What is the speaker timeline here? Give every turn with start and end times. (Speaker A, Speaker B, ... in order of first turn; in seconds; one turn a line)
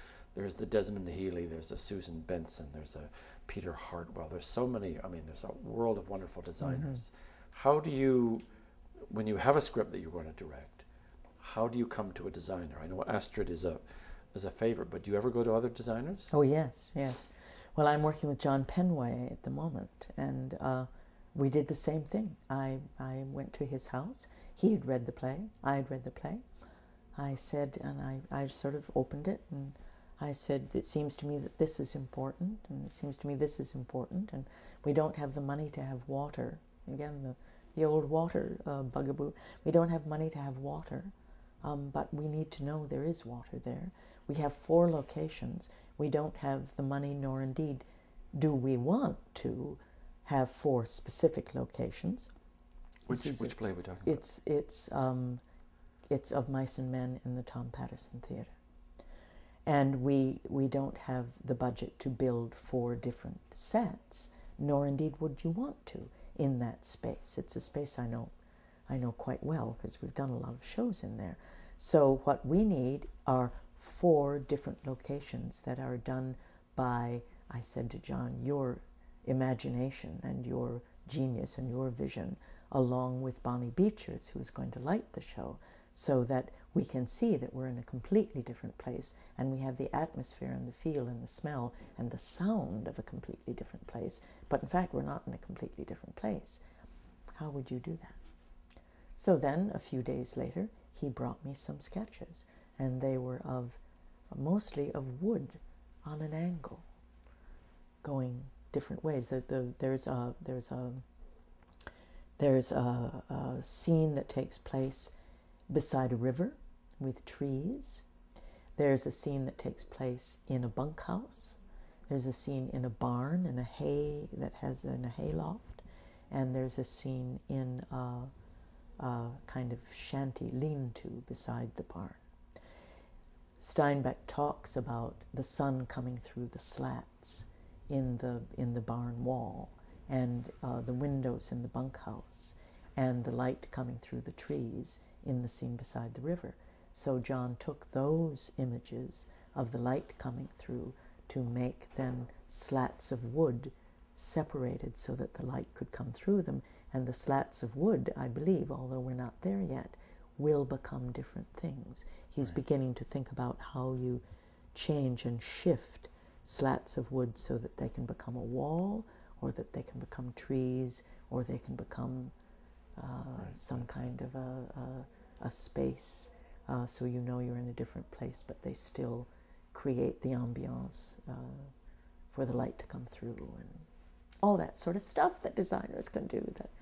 Speaker A: 0.3-8.4
Speaker B: 6.6-7.0
Speaker A: 9.1-10.9
Speaker A: 11.4-13.8
Speaker A: 14.3-16.3
Speaker B: 16.3-26.4
Speaker B: 27.1-41.1
Speaker B: 41.6-47.8
Speaker B: 48.4-52.3
Speaker A: 53.1-54.2
Speaker B: 53.1-55.4
Speaker B: 56.1-58.5
Speaker B: 59.6-68.3
Speaker B: 68.9-96.6
Speaker B: 97.3-98.2
Speaker B: 99.2-103.8
Speaker B: 104.3-106.8
Speaker B: 108.0-111.0
Speaker B: 112.4-115.1
Speaker B: 115.7-118.0
Speaker B: 118.8-121.6
Speaker B: 122.1-128.3
Speaker B: 129.0-132.2
Speaker B: 133.6-164.2
Speaker B: 164.7-172.3
Speaker B: 173.0-181.7
Speaker A: 173.4-173.6
Speaker B: 182.3-183.8
Speaker B: 184.4-186.7